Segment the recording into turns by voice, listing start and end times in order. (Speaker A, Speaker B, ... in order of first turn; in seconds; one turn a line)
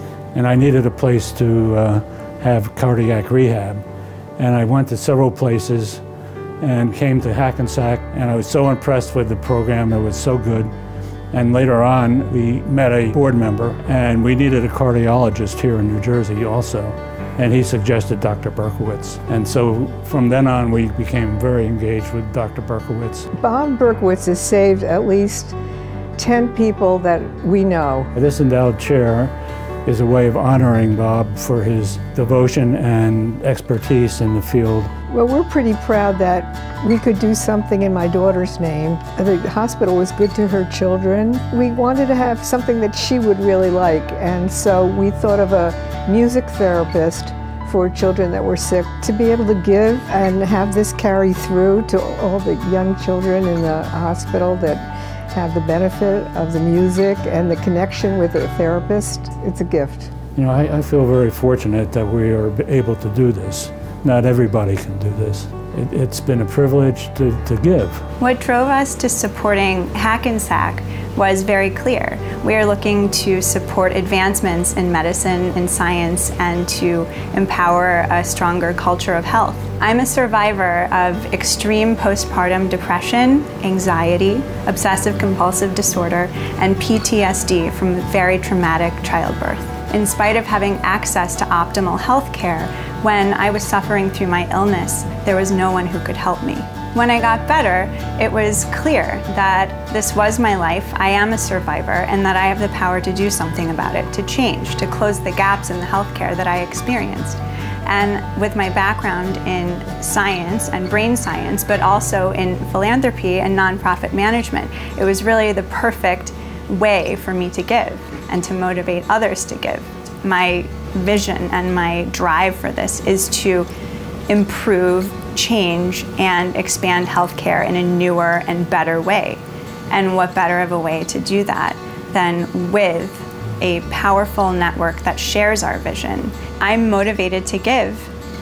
Speaker A: 0.3-3.8
Speaker A: 4.4-6.0
Speaker A: 6.6-10.7
Speaker A: 11.3-23.3
Speaker B: 23.4-25.6
Speaker B: 26.2-28.1
Speaker A: 28.1-29.3
Speaker A: 29.8-34.9
Speaker B: 35.1-60.1
Speaker A: 60.3-68.0
Speaker C: 68.2-123.7
Speaker C: 124.3-138.1